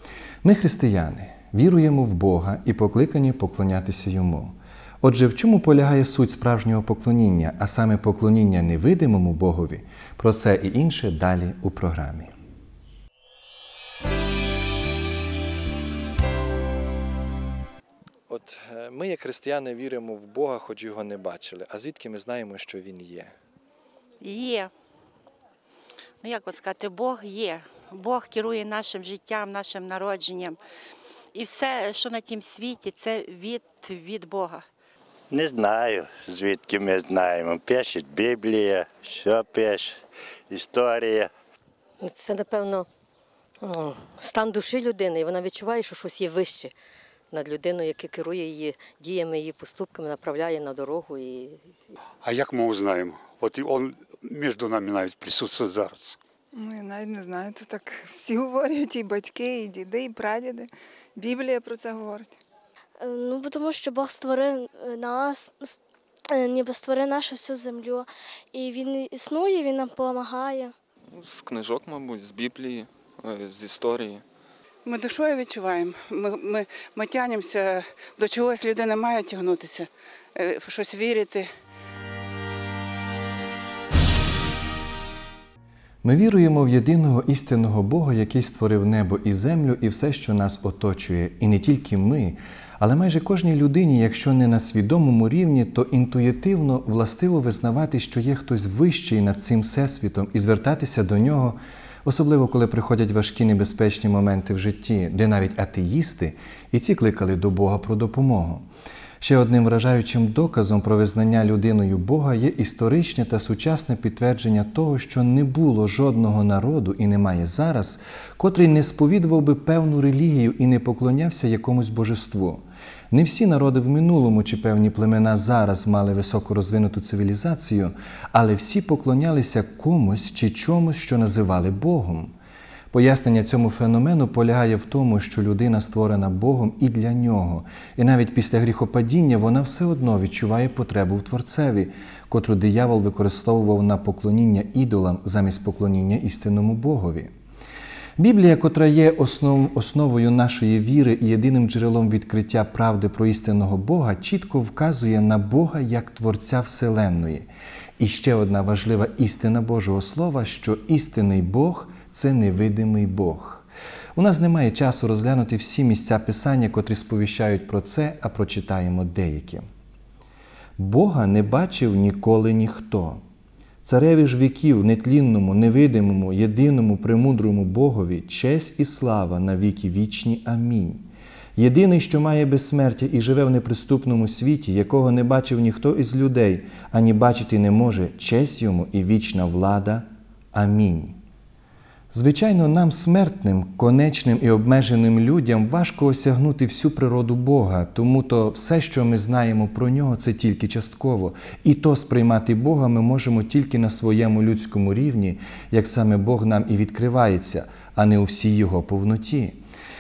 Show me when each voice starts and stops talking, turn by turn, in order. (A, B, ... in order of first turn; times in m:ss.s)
0:00.4-0:12.3 A
0:18.3-0:23.3 A
0:24.2-0:24.7 B
0:26.2-0:30.6 B
0:31.3-0:34.6 B
0:35.3-0:40.0 C
0:40.5-0:41.3 C
0:42.0-0:42.9 D
0:43.6-0:46.7 D
0:47.3-0:51.6 D
0:52.2-0:56.2 E
0:56.5-1:02.3 F
1:03.0-1:10.7 G
1:11.1-1:14.2 H
1:14.8-1:21.5 I
1:26.0-1:48.7 A
1:49.2-2:12.3 A
2:12.9-2:27.3 A
2:28.2-2:49.6 A
2:50.8-2:53.2 A
2:53.8-3:11.2 A
3:12.1-3:29.6 A